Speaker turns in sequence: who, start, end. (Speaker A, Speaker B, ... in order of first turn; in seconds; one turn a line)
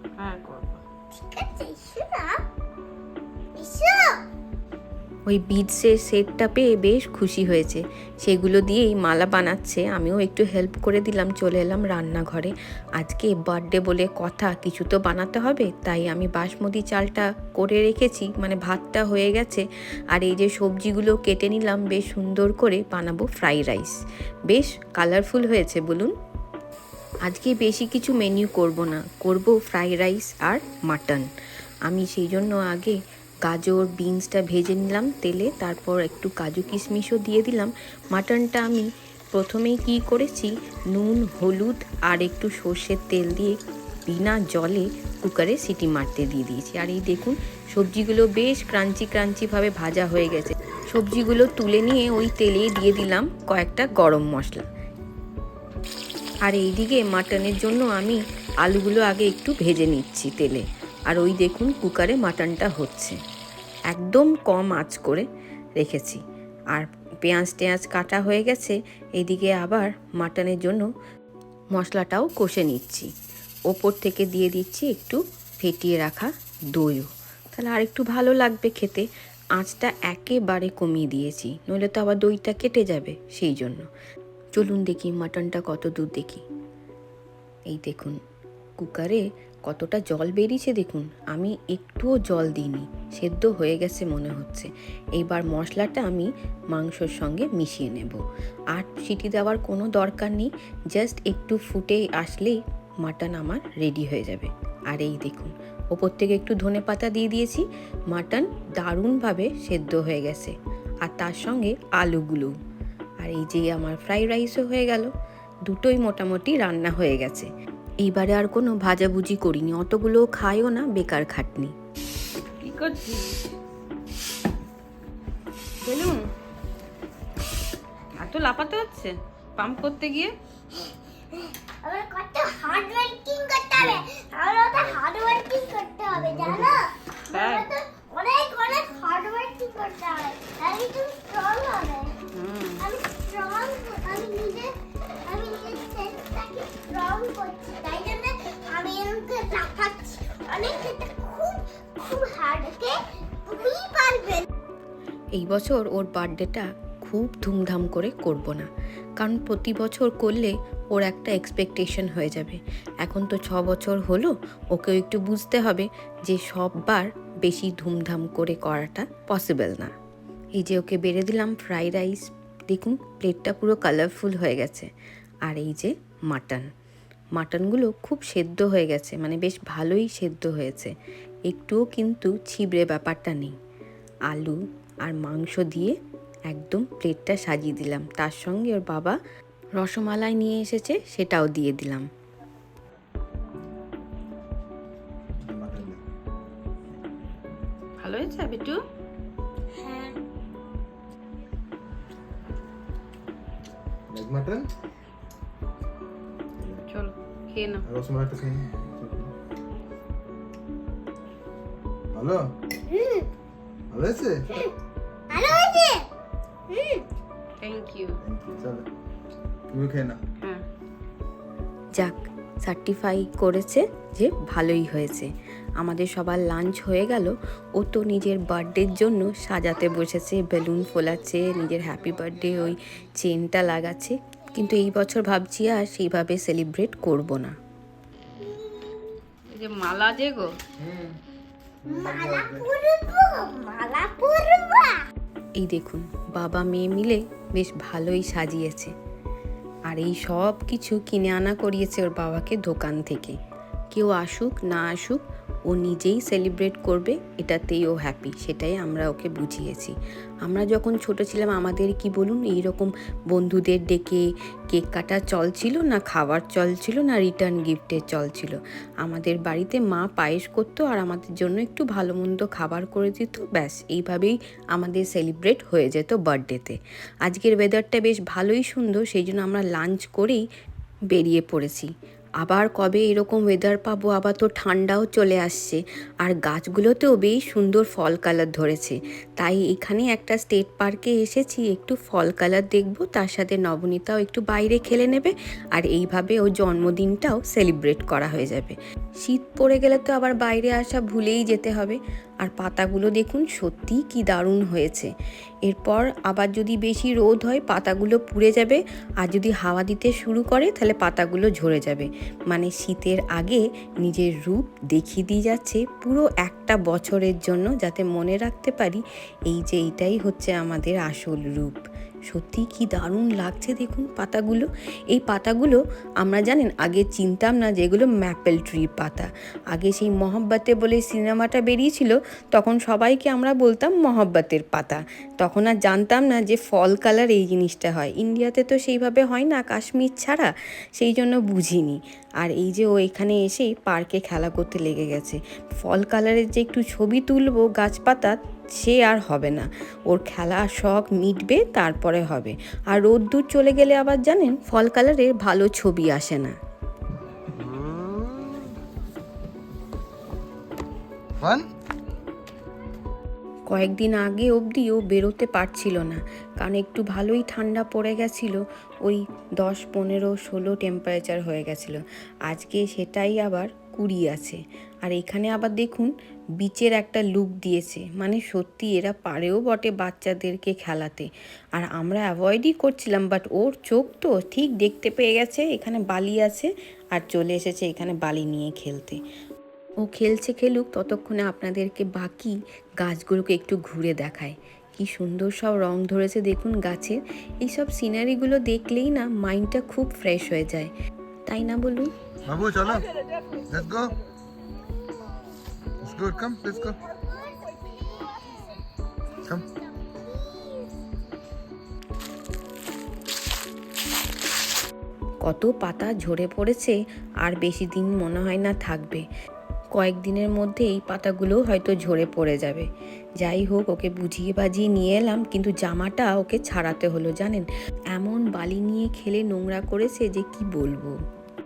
Speaker A: 0.2-0.8
Speaker B: 1.1-2.4
Speaker B: 3.5-4.2
Speaker C: 5.3-26.1
Speaker C: 27.2-31.3
Speaker C: 31.9-43.5
Speaker C: 44.1-54.6
Speaker C: 56.4-63.2
Speaker C: 63.9-65.2
Speaker C: 65.8-66.2
Speaker C: 66.7-70.8
Speaker C: 71.7-73.1
Speaker C: 73.7-83.8
Speaker C: 84.5-86.4
Speaker C: 87.7-88.2
Speaker C: 88.8-98.2
Speaker C: 98.7-112.5
Speaker C: 113.2-115.1
Speaker C: 115.7-117.5
Speaker C: 118.0-121.7
Speaker A: 122.6-123.5
Speaker A: 125.8-126.2
Speaker A: 128.2-130.3
Speaker B: 131.3-142.1
Speaker A: 137.2-137.7
Speaker A: 142.3-142.8
Speaker B: 142.8-144.7
Speaker B: 145.3-154.5
Speaker C: 155.3-158.7
Speaker C: 159.2-169.9
Speaker C: 170.6-174.9
Speaker C: 175.4-176.7
Speaker C: 177.3-180.9
Speaker C: 181.5-183.5
Speaker C: 184.3-185.9
Speaker C: 186.5-189.2
Speaker C: 189.8-192.1
Speaker D: 195.4-196.0
Speaker A: 198.0-198.8
Speaker B: 199.7-200.2
Speaker D: 204.1-204.7
Speaker D: 206.6-206.8
Speaker A: 206.9-207.8
Speaker D: 207.8-209.3
Speaker D: 212.1-212.4
Speaker B: 212.9-213.3
Speaker D: 213.9-214.6
Speaker B: 215.3-216.1
Speaker B: 216.7-217.0
Speaker A: 217.6-218.2
Speaker D: 218.2-218.8
Speaker D: 219.7-220.2
Speaker C: 222.0-237.5
Speaker B: 238.4-239.1
Speaker A: 239.5-240.5
Speaker D: 240.8-241.2
Speaker D: 241.8-242.7
Speaker B: 241.8-244.9
Speaker C: 245.6-248.9
Speaker C: 249.9-253.3
Speaker C: 253.9-280.4
Speaker C: 281.1-305.1
Speaker C: 305.6-356.6
Speaker D: 361.4-361.7
Speaker C: 363.7-389.2
Speaker C: 390.0-400.9
Speaker C: 401.5-402.1
Speaker D: 402.5-403.1
Speaker D: 403.7-404.1
Speaker D: 406.0-407.0
Speaker B: 406.8-408.7
Speaker B: 409.7-410.9
Speaker C: 415.4-419.2
Speaker C: 419.9-422.9
Speaker C: 423.4-431.1